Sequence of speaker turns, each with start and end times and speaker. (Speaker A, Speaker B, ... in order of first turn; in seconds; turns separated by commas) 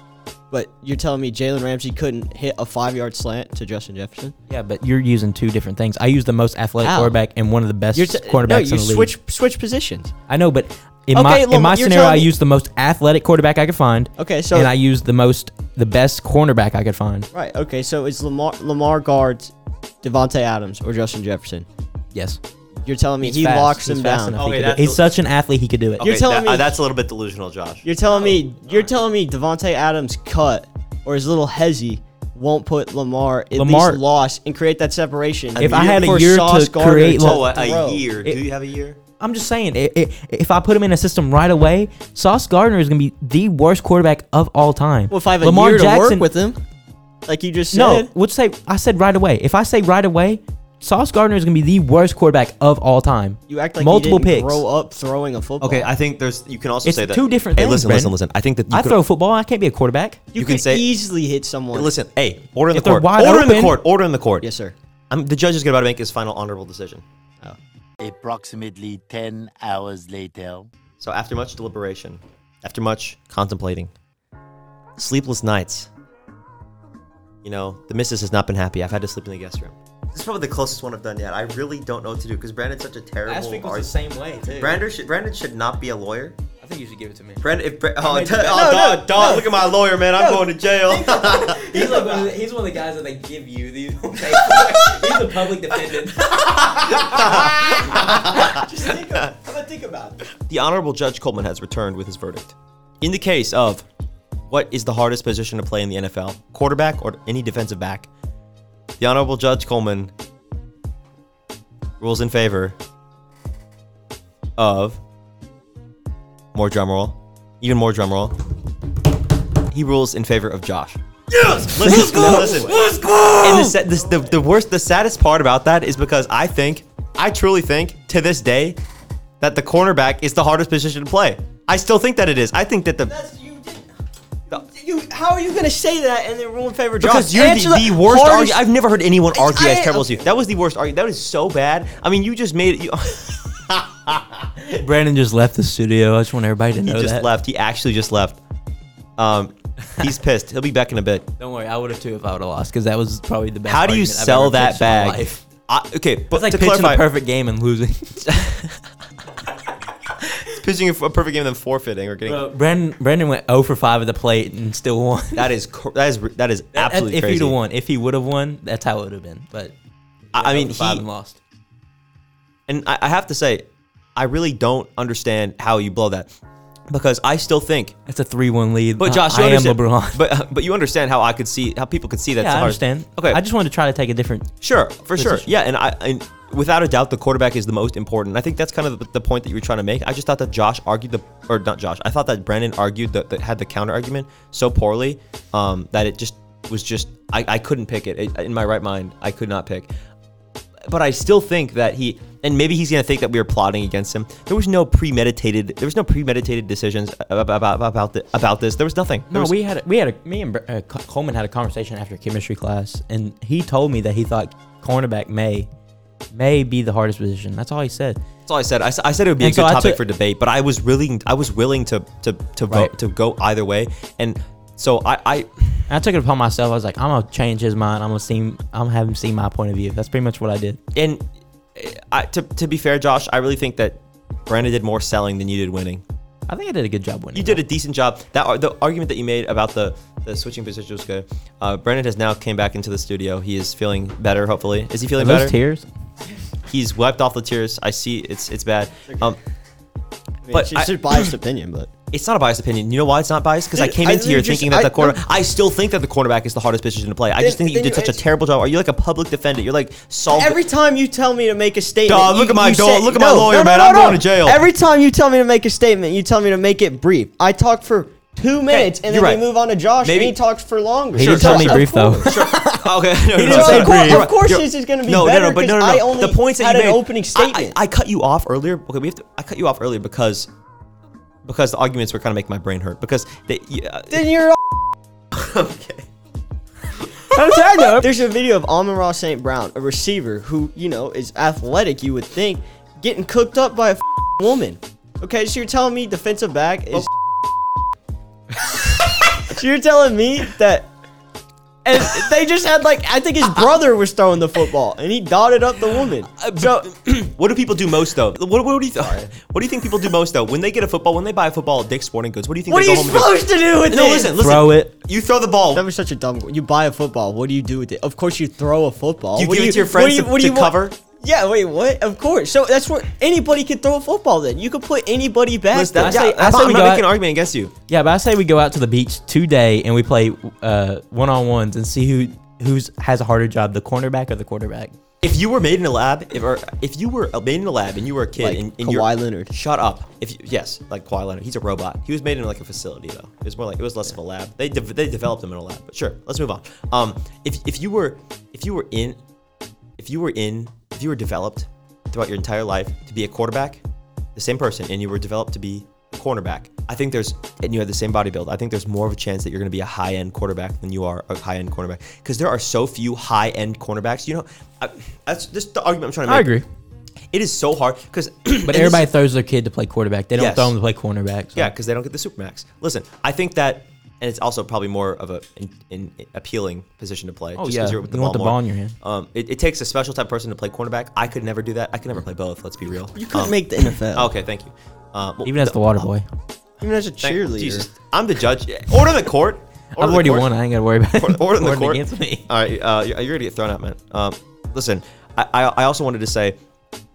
Speaker A: 0.5-4.3, Speaker B: 4.5-9.1, Speaker A: 6.8-7.2, Speaker A: 7.9-10.1, Speaker B: 10.3-17.3, Speaker A: 11.1-12.3, Speaker A: 14.2-14.7, Speaker A: 17.3-21.6, Speaker B: 22.1-22.4, Speaker A: 22.8-24.4, Speaker B: 23.2-26.1, Speaker C: 24.4-25.1, Speaker C: 26.0-27.9, Speaker A: 26.0-26.8, Speaker A: 27.8-38.0, Speaker B: 33.5-34.0, Speaker C: 35.5-36.2, Speaker B: 35.6-37.5, Speaker C: 37.2-39.0, Speaker B: 39.2-46.2, Speaker A: 45.1-46.6, Speaker A: 47.2-48.1, Speaker B: 47.7-54.6, Speaker A: 53.5-55.9, Speaker C: 55.6-59.0, Speaker B: 56.8-58.1, Speaker B: 58.7-60.2, Speaker A: 60.3-61.9, Speaker C: 60.4-60.8, Speaker C: 61.7-64.5, Speaker B: 62.7-63.8, Speaker A: 64.4-64.7, Speaker C: 65.1-67.0, Speaker D: 68.0-70.7, Speaker C: 71.0-73.9, Speaker C: 75.0-75.9, Speaker C: 77.4-83.9, Speaker B: 83.2-84.8, Speaker C: 84.5-86.4, Speaker B: 86.6-87.4, Speaker C: 87.4-91.7, Speaker B: 88.0-88.7, Speaker A: 88.3-92.3, Speaker B: 90.9-98.4, Speaker C: 96.5-98.6, Speaker A: 97.1-100.3, Speaker C: 100.5-103.8, Speaker C: 104.5-108.1, Speaker C: 109.0-110.1, Speaker C: 112.0-112.8, Speaker C: 114.6-115.0, Speaker C: 116.5-118.4, Speaker C: 119.7-121.0, Speaker B: 121.4-123.7, Speaker C: 121.6-122.8, Speaker A: 121.8-123.0, Speaker C: 123.4-128.8, Speaker C: 129.4-133.1, Speaker A: 133.1-133.9, Speaker A: 134.5-138.6, Speaker C: 137.0-144.3, Speaker A: 139.3-140.3, Speaker B: 144.6-147.3, Speaker C: 146.8-148.4, Speaker C: 149.2-151.3, Speaker B: 151.4-155.4, Speaker C: 153.7-157.0, Speaker B: 156.3-158.5, Speaker C: 158.3-158.6, Speaker C: 160.4-162.4, Speaker B: 162.2-165.5, Speaker C: 165.3-167.6, Speaker B: 166.7-169.7, Speaker B: 170.3-171.4, Speaker C: 170.3-171.0, Speaker C: 172.7-176.3, Speaker C: 176.9-177.9, Speaker B: 178.1-180.2, Speaker C: 179.0-183.4, Speaker B: 182.4-184.5, Speaker C: 184.6-199.9, Speaker B: 185.2-185.5, Speaker C: 200.9-209.5, Speaker B: 209.3-215.7, Speaker B: 216.3-218.2, Speaker C: 218.5-225.7, Speaker B: 219.4-220.0, Speaker B: 225.9-230.8, Speaker C: 230.9-231.2, Speaker C: 231.7-236.0, Speaker B: 236.5-237.6, Speaker C: 237.3-245.5, Speaker B: 245.2-245.8, Speaker C: 246.7-249.4, Speaker A: 250.4-251.9, Speaker C: 250.5-251.3, Speaker C: 252.1-260.6, Speaker A: 253.7-255.2, Speaker A: 257.4-258.2, Speaker A: 260.3-272.4, Speaker C: 262.1-264.6, Speaker C: 268.7-269.4, Speaker C: 270.0-270.4, Speaker B: 271.1-272.8, Speaker C: 271.2-280.5, Speaker A: 273.4-277.8, Speaker B: 273.4-274.3, Speaker C: 281.4-284.2, Speaker A: 284.1-284.9, Speaker C: 285.3-286.1, Speaker B: 287.3-288.1, Speaker A: 288.0-297.1, Speaker A: 299.4-300.9, Speaker A: 301.8-306.9, Speaker C: 306.5-315.9, Speaker A: 309.0-309.3, Speaker A: 312.7-314.4, Speaker B: 314.4-314.9, Speaker A: 315.7-326.6, Speaker C: 319.4-320.9, Speaker C: 325.7-327.7, Speaker B: 326.0-327.1, Speaker B: 327.9-334.9, Speaker C: 335.2-349.2, Speaker A: 338.4-339.5, Speaker C: 350.0-353.8, Speaker C: 354.4-366.5, Speaker B: 366.2-366.6, Speaker C: 367.3-369.0, Speaker B: 368.6-371.7, Speaker C: 370.3-370.7, Speaker C: 371.5-383.6, Speaker B: 377.6-378.9, Speaker A: 383.1-384.3, Speaker C: 384.1-386.1, Speaker B: 385.4-386.2, Speaker A: 386.8-387.9, Speaker C: 387.2-390.5, Speaker B: 389.9-392.4, Speaker C: 391.1-396.6